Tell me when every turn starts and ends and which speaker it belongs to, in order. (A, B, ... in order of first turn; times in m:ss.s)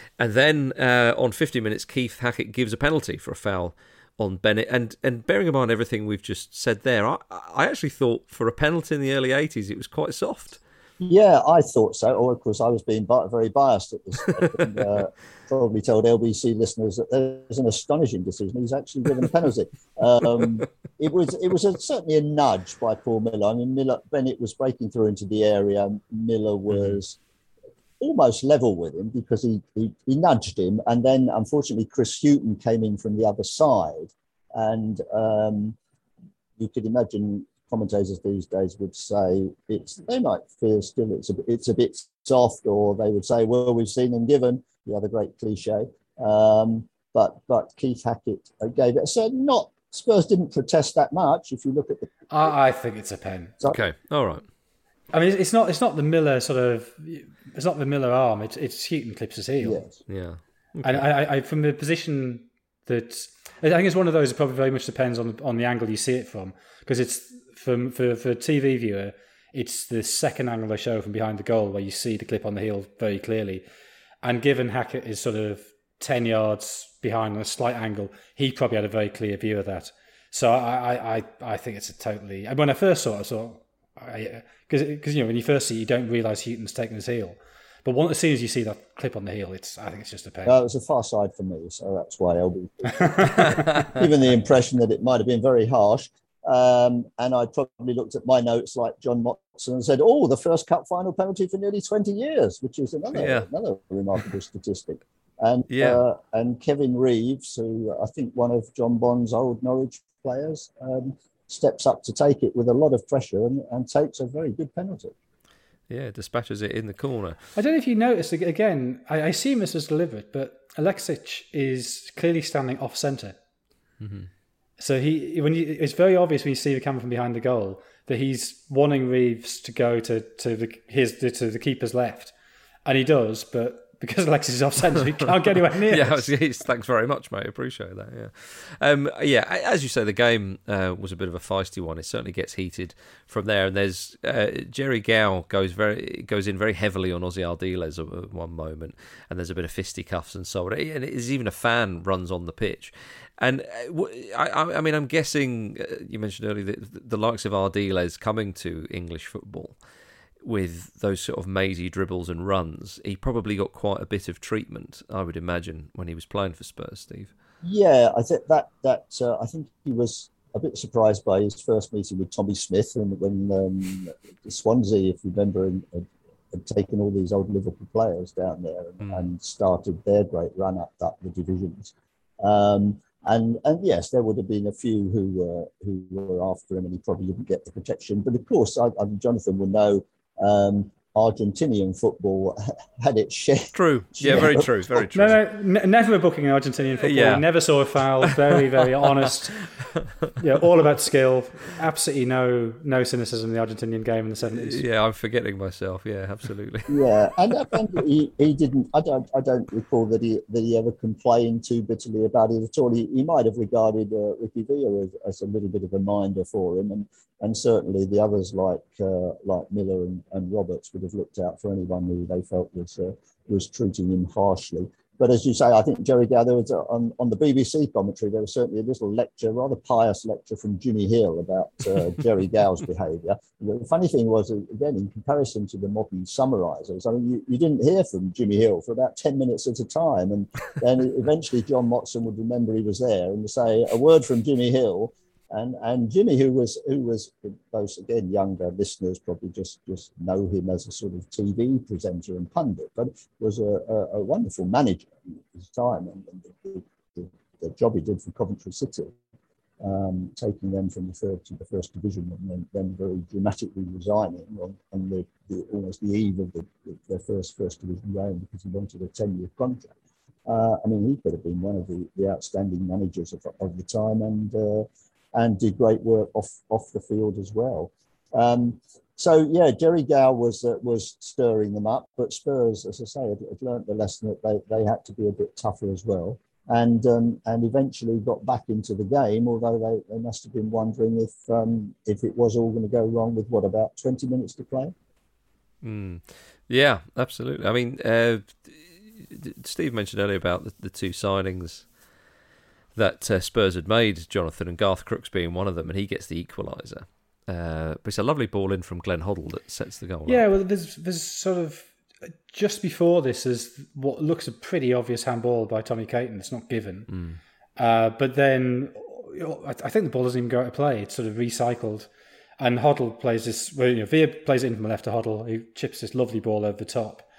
0:00.2-0:10.6 A
0:11.0-0:27.2 B
0:26.7-0:27.0 A
0:28.0-0:35.8 B
0:36.6-0:52.1 B
0:52.3-0:53.5 C
0:53.6-0:54.4 A
0:55.1-0:59.8 C
0:59.6-1:00.0 B
1:00.1-1:01.0 A
1:00.8-1:13.6 C
1:14.2-1:30.6 C
1:30.4-1:55.1 B
1:33.0-1:33.5 C
1:43.1-1:43.5 A
1:45.7-1:46.0 A
1:55.9-1:57.4 A
1:57.6-2:03.4 C
2:04.0-2:04.3 A
2:04.8-2:12.3 C
2:12.8-2:16.3 C
2:15.9-2:39.8 A
2:40.4-2:47.3 A
2:47.6-3:14.7 B
2:59.0-2:59.3 A
3:13.7-3:15.4 A
3:14.3-3:14.5 C
3:15.1-3:19.7 C
3:17.0-3:17.5 A
3:18.2-3:18.5 A
3:19.8-3:20.3 A
3:20.4-3:24.8 C
3:24.5-3:27.7 A
3:26.9-4:19.2 B
4:19.8-4:29.9 B
4:30.5-4:54.9 B
4:55.8-5:01.9 A
5:03.0-5:10.4 A
5:10.3-5:17.1 C
5:17.1-5:17.4 A
5:17.8-5:27.2 C